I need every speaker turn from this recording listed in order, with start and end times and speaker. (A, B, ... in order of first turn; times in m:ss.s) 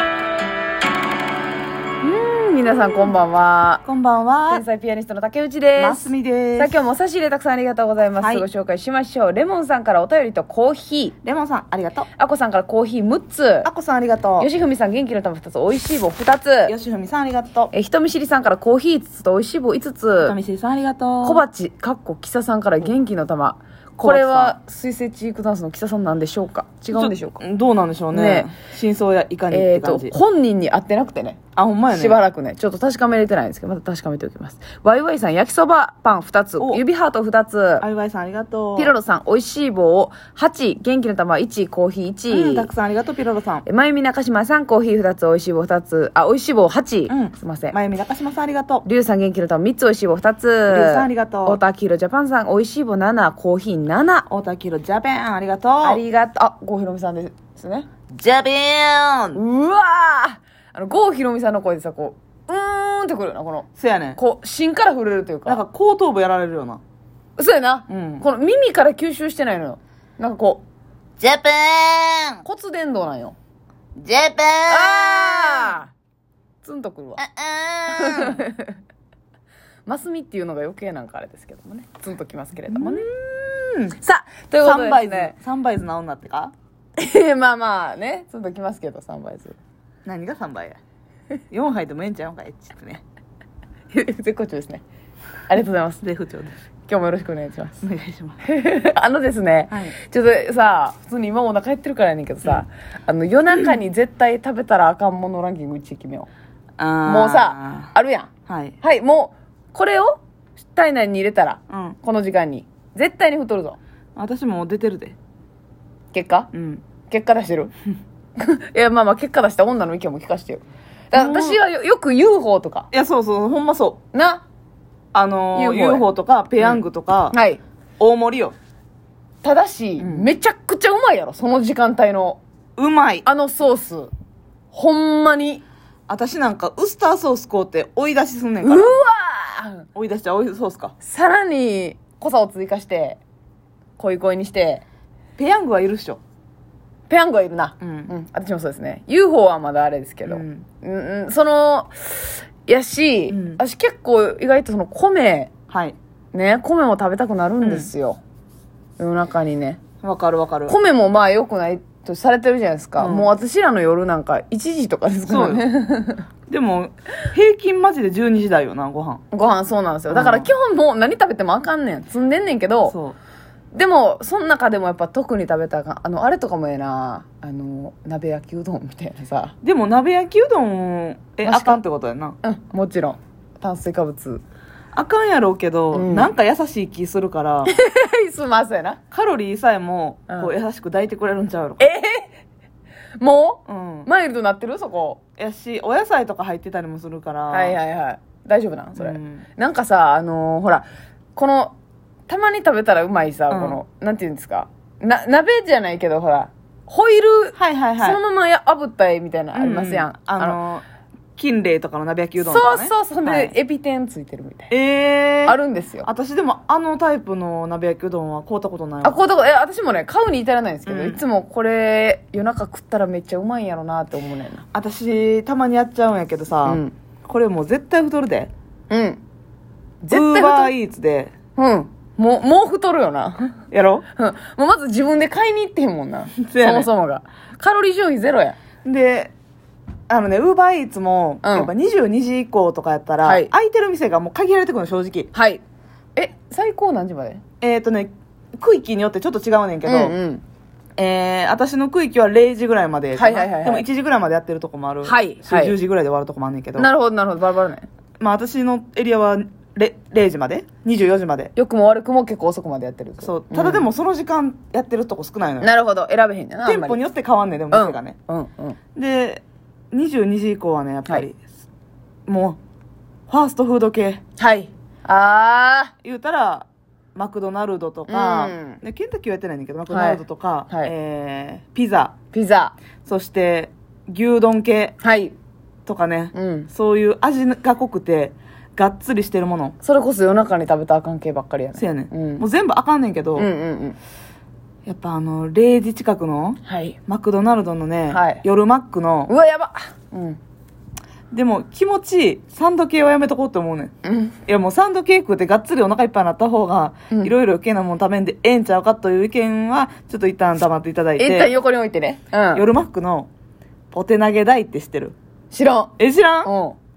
0:02.0-0:03.8 A
0:03.8-0:04.6 B
0:04.5-0:11.2 A
0:05.8-0:06.8 B
0:08.2-0:08.5 B
0:11.2-0:12.1 B
0:12.2-0:13.7 A
0:13.6-0:14.5 B
0:14.4-0:16.7 A
0:16.7-0:17.7 B
0:17.7-0:20.4 A
0:20.2-0:21.4 B
0:21.2-0:27.4 A
0:24.0-0:24.6 B
0:26.9-0:30.2 B
0:28.1-0:28.5 A
0:29.5-0:31.4 A
0:31.6-0:32.2 B
0:31.9-0:37.8 A
0:37.8-0:39.0 B
0:38.8-0:42.7 A
0:42.3-0:43.6 B
0:43.7-0:47.8 A
0:47.1-0:48.8 B
0:48.8-0:54.3 A
0:50.7-0:51.6 B
0:54.3-0:56.0 B
0:55.8-0:57.9 A
0:58.1-0:59.4 B
0:59.4-1:05.6 A
1:03.8-1:04.2 B
1:05.5-1:06.8 B
1:07.4-1:10.6 A
1:07.9-1:08.2 B
1:11.2-1:12.4 B
1:12.4-1:13.4 A
1:14.0-1:15.8 B
1:14.7-1:15.9 A
1:16.6-1:17.2 A
1:17.2-1:18.4 B
1:17.9-1:18.8 A
1:19.9-1:23.0 A
1:22.7-1:24.0 B
1:24.0-1:25.3 A
1:24.6-1:26.5 B
1:27.0-1:29.6 A
1:30.0-1:30.8 B
1:31.5-1:33.0 B
1:33.9-1:34.8 A
1:35.5-1:36.0 A
1:36.0-1:36.6 B
1:36.9-1:37.8 A
1:37.8-1:38.4 B
1:38.4-1:46.3 A
1:39.7-1:40.0 B
1:46.8-1:47.9 B
1:47.0-1:48.3 A
1:48.5-1:48.8 B
1:48.8-1:50.2 A
1:50.7-1:53.8 A
1:51.7-1:52.0 B
1:54.2-1:55.2 B
1:56.1-1:56.5 A
1:56.5-1:56.8 B
1:57.1-1:57.7 A
1:58.4-2:02.9 A
2:01.1-2:01.6 B
2:02.9-2:04.0 B
2:04.1-2:04.4 A
2:05.1-2:07.4 B
2:05.5-2:06.1 A
2:07.3-2:07.6 A
2:08.0-2:08.6 B
2:09.4-2:12.4 A
2:10.0-2:10.3 B
2:12.8-2:13.3 B
2:13.2-2:14.1 A
2:14.7-2:15.6 A
2:16.1-2:19.0 B
2:18.6-2:19.9 A
2:20.0-2:20.9 B
2:21.0-2:23.2 A
2:24.0-2:24.8 A
2:25.4-2:26.2 B
2:27.1-2:35.5 A
2:27.8-2:28.1 B
2:30.3-2:30.7 B
2:33.3-2:33.6 B
2:35.7-2:36.0 B
2:36.3-2:38.2 A
2:37.6-2:37.9 B
2:39.0-2:39.8 A
2:40.0-2:40.8 B
2:40.7-2:46.2 A
2:43.0-2:43.3 B
2:45.3-2:45.7 B
2:46.5-2:49.2 B
2:49.3-2:53.0 A
2:50.1-2:50.5 B
2:52.9-2:53.2 B
2:53.7-2:59.6 A
2:59.6-3:02.4 B
3:01.4-3:01.8 A
3:02.4-3:04.4 A
3:04.9-3:07.7 B
3:05.9-3:06.3 A
3:07.6-3:09.0 A
3:09.1-3:11.9 B
3:11.8-3:12.3 A
3:13.2-3:15.2 A
3:13.7-3:14.1 B
3:15.4-3:17.8 B
3:17.5-3:20.8 A
3:19.0-3:19.5 B
3:21.4-3:21.7 A
3:22.3-3:30.6 A
3:23.5-3:23.8 B
3:27.6-3:28.2 B
3:29.6-3:30.8 B
3:31.4-3:33.6 B
3:32.4-3:34.7 A
3:34.7-3:39.2 B
3:35.5-3:36.1 A
3:39.0-3:44.6 A
3:40.9-3:41.2 B
3:44.7-3:48.5 B
3:46.6-3:46.9 A
3:48.9-3:49.2 A
3:50.0-3:50.7 A
3:50.1-3:51.3 B
3:51.6-3:53.6 A
3:53.7-3:54.0 B
3:54.2-3:58.6 A
3:56.4-3:56.9 B
3:58.8-3:59.3 B
4:00.1-4:05.3 B
4:01.4-4:01.7 A
4:03.2-4:03.5 A
4:05.3-4:05.6 A
4:06.2-4:07.4 A
4:07.6-4:10.2 B
4:09.8-4:10.4 A
4:11.0-4:16.9 B
4:13.2-4:13.8 A
4:15.0-4:15.7 A
4:16.8-4:17.9 A
4:18.2-4:21.5 B
4:21.6-4:23.9 A
4:23.2-4:25.7 B
4:25.6-4:27.0 A
4:26.6-4:28.2 B
4:27.7-4:28.8 A
4:29.0-4:31.5 B
4:32.3-4:32.6 B
4:33.3-4:34.2 B
4:34.4-4:35.9 A
4:36.0-4:42.1 B
4:38.1-4:38.8 A
4:39.9-4:40.9 A
4:42.3-4:42.8 A
4:43.1-4:45.0 B
4:45.0-4:45.3 A
4:45.9-4:49.8 B
4:46.3-4:46.7 A
4:49.8-4:52.4 A
4:51.8-4:53.5 B
4:53.4-4:54.0 A
4:54.9-4:59.3 B
4:56.7-4:57.0 A
4:58.1-4:58.4 A
4:59.3-5:00.4 A
5:01.3-5:03.9 B
5:04.0-5:04.4 A
5:04.5-5:11.5 B
5:11.2-5:12.7 A
5:12.5-5:13.3 B
5:13.9-5:15.2 B
5:15.5-5:15.9 A
5:16.0-5:16.5 B
5:16.4-5:16.8 A